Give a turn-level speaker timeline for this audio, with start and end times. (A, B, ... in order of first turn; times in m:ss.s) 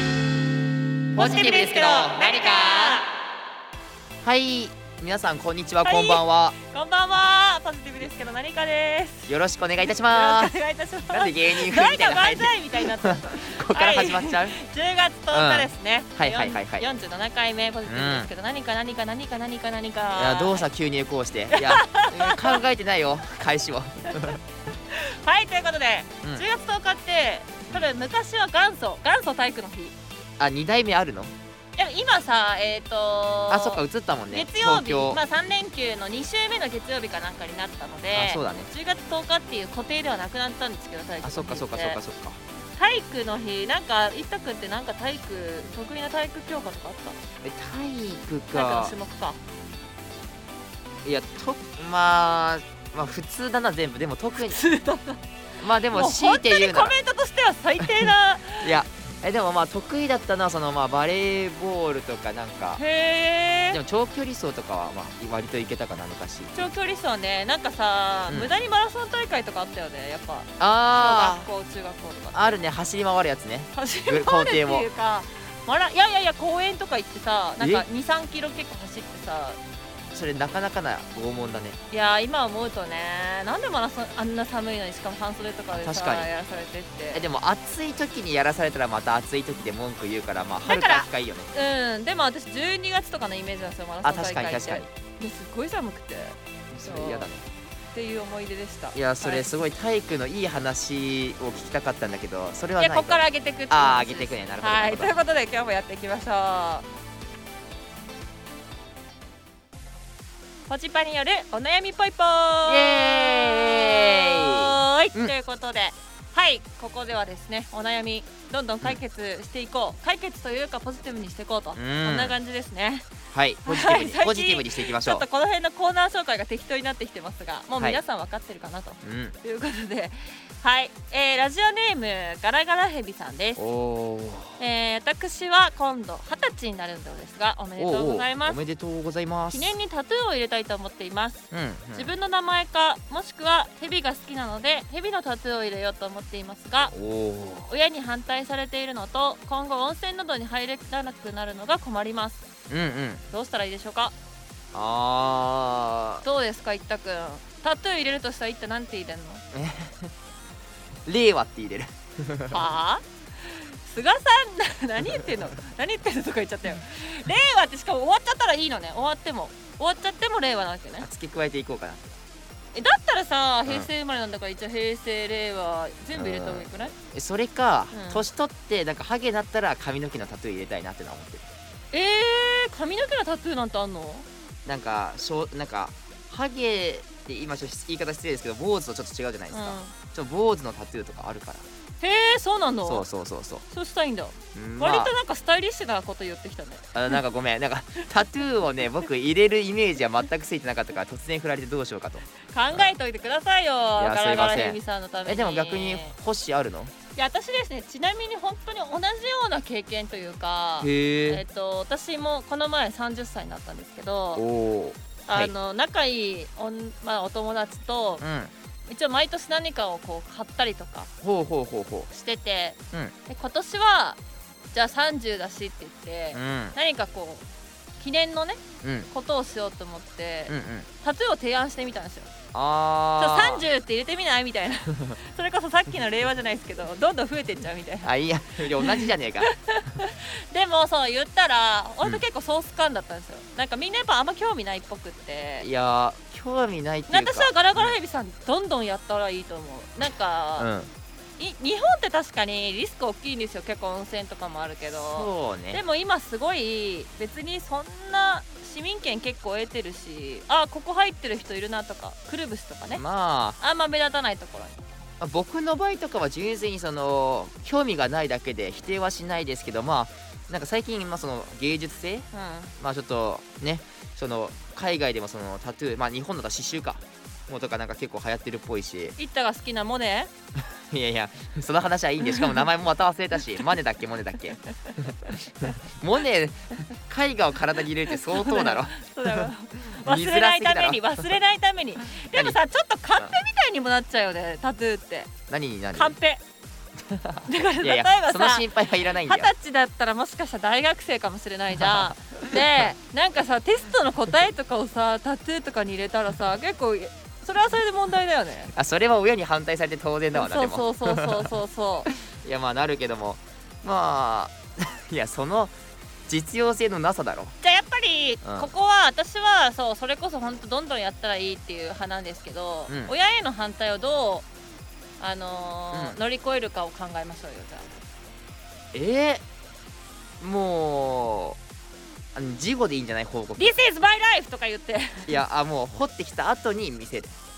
0:01.1-0:03.0 A
0:01.2-0:03.1 B
0:04.2-0:06.6 A
0:05.8-0:20.7 B
0:09.3-0:10.5 A
0:11.1-0:14.6 A
0:15.3-0:16.9 A
0:17.9-0:18.3 A
0:20.2-0:24.4 A
0:21.5-0:22.6 B
0:24.9-0:29.9 B
0:30.4-0:31.3 A
0:31.8-0:42.0 B
0:33.5-0:35.2 A
0:38.1-0:38.7 A
0:41.2-0:42.4 A
0:42.8-0:47.2 B
0:47.4-0:49.0 A
0:48.5-0:49.4 B
0:51.0-0:54.6 A
0:54.5-0:55.2 B
0:55.6-0:57.0 A
0:55.9-0:58.7 B
0:58.6-1:02.8 A
1:02.8-1:03.8 B
1:03.7-1:06.7 A
1:06.5-1:12.6 B
1:10.6-1:11.5 A
1:12.3-1:14.9 A
1:13.7-1:19.6 B
1:17.6-1:17.9 A
1:20.1-1:21.8 A
1:21.9-1:27.2 B
1:25.7-1:26.3 A
1:27.1-1:31.5 A
1:30.6-1:37.3 B
1:34.0-1:34.9 A
1:36.7-1:37.4 A
1:37.9-1:39.5 B
1:38.9-1:45.2 A
1:42.8-1:46.9 B
1:50.7-2:03.1 B
1:52.7-1:55.3 A
2:01.8-2:02.4 A
2:03.3-2:05.3 A
2:03.6-2:13.6 B
2:09.0-2:09.4 A
2:13.6-2:14.6 A
2:14.6-2:18.6 B
2:17.8-2:19.8 A
2:19.5-2:26.9 B
2:21.5-2:22.1 A
2:26.9-2:27.7 A
2:27.7-2:32.4 B
2:32.7-2:33.2 A
2:33.3-2:34.2 B
2:34.7-2:36.2 A
2:36.2-2:39.4 B
2:39.5-2:40.1 A
2:41.1-2:42.7 A
2:42.5-2:51.1 B
2:51.0-2:52.1 A
2:52.7-2:57.0 B
2:56.1-3:01.5 A
2:57.9-2:58.2 B
3:01.9-3:04.3 B
3:04.7-3:11.7 A
3:09.5-3:10.0 B
3:12.0-3:13.1 B
3:12.8-3:13.6 A
3:13.7-3:17.2 B
3:14.6-3:15.1 A
3:16.9-3:22.9 A
3:22.5-3:26.2 B
3:24.0-3:26.9 A
3:27.2-3:34.4 B
3:30.8-3:31.4 A
3:34.4-3:35.5 A
3:35.3-3:38.2 B
3:38.2-3:38.5 A
3:38.9-3:41.1 B
3:41.2-3:42.1 A
3:42.1-3:44.2 B
3:44.7-3:47.4 B
3:46.3-3:46.8 A
3:48.0-3:52.3 B
3:48.8-3:49.1 A
3:50.5-3:50.9 A
3:52.5-3:53.7 A
3:53.2-3:58.1 B
3:58.0-3:59.5 A
3:58.8-4:05.7 B
4:05.6-4:07.9 A
4:07.1-4:10.7 B
4:10.6-4:10.9 A
4:11.4-4:23.0 B
4:15.0-4:15.8 A
4:22.9-4:23.6 A
4:23.6-4:24.8 B
4:25.2-4:32.3 A
4:32.3-4:32.7 B
4:32.8-4:39.2 A
4:39.2-4:40.3 B
4:40.9-4:51.4 A
4:42.3-4:42.6 B
4:48.3-4:55.3 B
4:52.2-4:52.6 A
4:55.5-4:56.2 A
4:55.9-4:56.4 B
4:57.1-4:59.5 A
4:57.5-5:08.7 B
5:01.8-5:02.7 A
5:08.7-5:11.5 A
5:10.4-5:12.1 B
5:12.1-5:15.8 A
5:16.3-5:17.6 A
5:17.6-5:24.5 B
5:18.4-5:18.7 A
5:22.9-5:23.1 A
5:25.2-5:27.9 B
5:25.9-5:26.2 A
5:28.9-5:29.4 A
5:30.4-5:31.6 A
5:32.4-5:33.8 A
5:33.6-5:35.4 B
5:35.3-5:37.3 A